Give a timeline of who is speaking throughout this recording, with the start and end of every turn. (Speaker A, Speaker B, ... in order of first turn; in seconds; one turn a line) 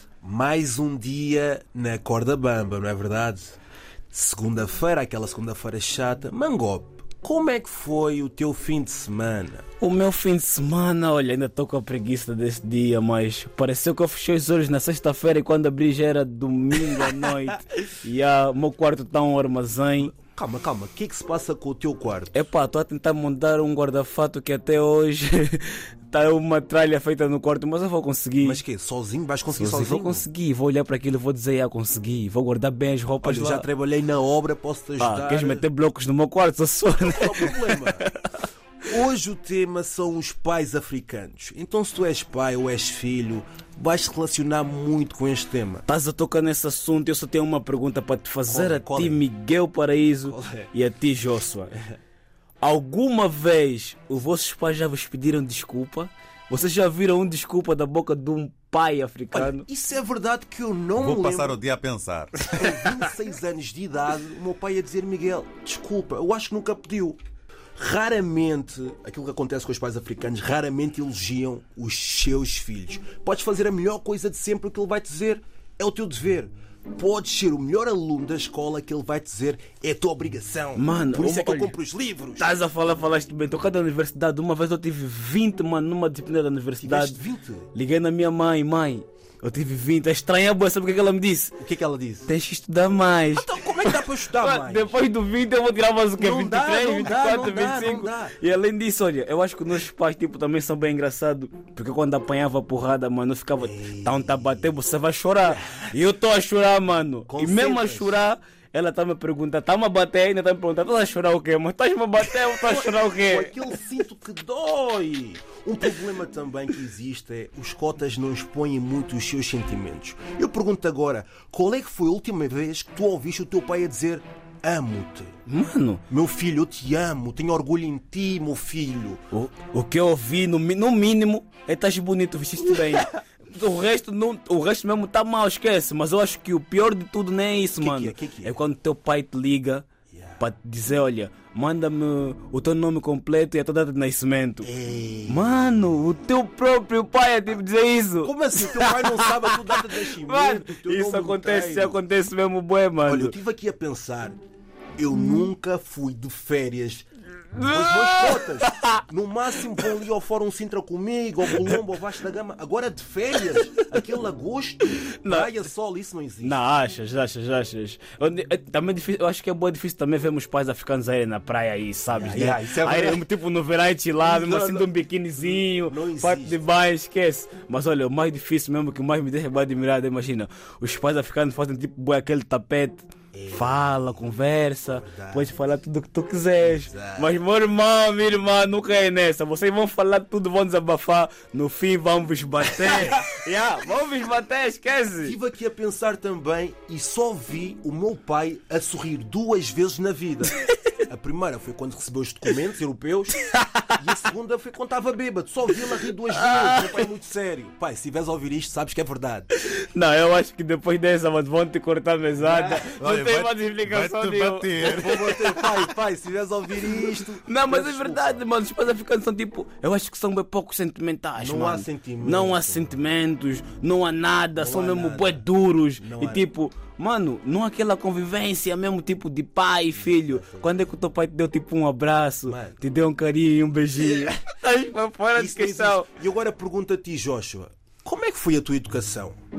Speaker A: 0.2-3.6
Speaker A: 4.1-9.6
Speaker B: 9.8-20.1
Speaker A: 20.0-22.4
Speaker B: 22.3-28.6
Speaker A: 28.4-30.3
Speaker B: 29.5-33.6
Speaker A: 33.2-35.6
Speaker B: 35.0-38.5
Speaker A: 37.0-38.0
Speaker A: 38.9-45.8
Speaker B: 45.9-51.9
Speaker A: 48.5-49.2
Speaker A: 50.2-50.7
Speaker B: 52.6-59.6
Speaker A: 59.3-61.6
Speaker C: 61.0-62.5
Speaker A: 62.4-67.2
Speaker A: 67.8-82.5
Speaker B: 80.8-81.7
Speaker B: 82.4-87.2
Speaker A: 86.8-87.7
Speaker B: 87.7-91.5
Speaker A: 91.6-92.3
Speaker B: 92.2-113.6
Speaker A: 93.3-95.0
Speaker A: 96.2-98.4
Speaker A: 103.6-104.7
Speaker A: 105.5-105.9
Speaker A: 107.3-108.2
Speaker A: 112.6-125.4
Speaker B: 125.5-126.0
Speaker A: 126.1-129.2
Speaker B: 129.3-139.9
Speaker A: 137.8-138.6
Speaker A: 140.1-140.4
Speaker B: 140.4-144.7
Speaker A: 144.6-145.7
Speaker B: 145.3-153.3
Speaker A: 148.2-152.0
Speaker A: 153.0-154.3
Speaker A: 155.0-166.6
Speaker B: 157.5-159.0
Speaker B: 165.1-165.5
Speaker B: 166.4-195.3
Speaker A: 172.1-173.2
Speaker A: 174.2-176.7
Speaker A: 183.3-184.2
Speaker A: 184.9-185.6
Speaker A: 186.6-187.4
Speaker A: 195.2-209.5
Speaker B: 203.5-203.8
Speaker B: 206.3-207.0
Speaker B: 209.5-215.1
Speaker A: 212.4-212.9
Speaker C: 213.0-215.7
Speaker A: 214.8-218.4
Speaker B: 216.8-236.1
Speaker A: 221.4-222.9
Speaker A: 224.6-225.4
Speaker A: 226.0-226.4
Speaker A: 230.0-230.8
Speaker A: 232.5-232.8
Speaker A: 235.3-239.4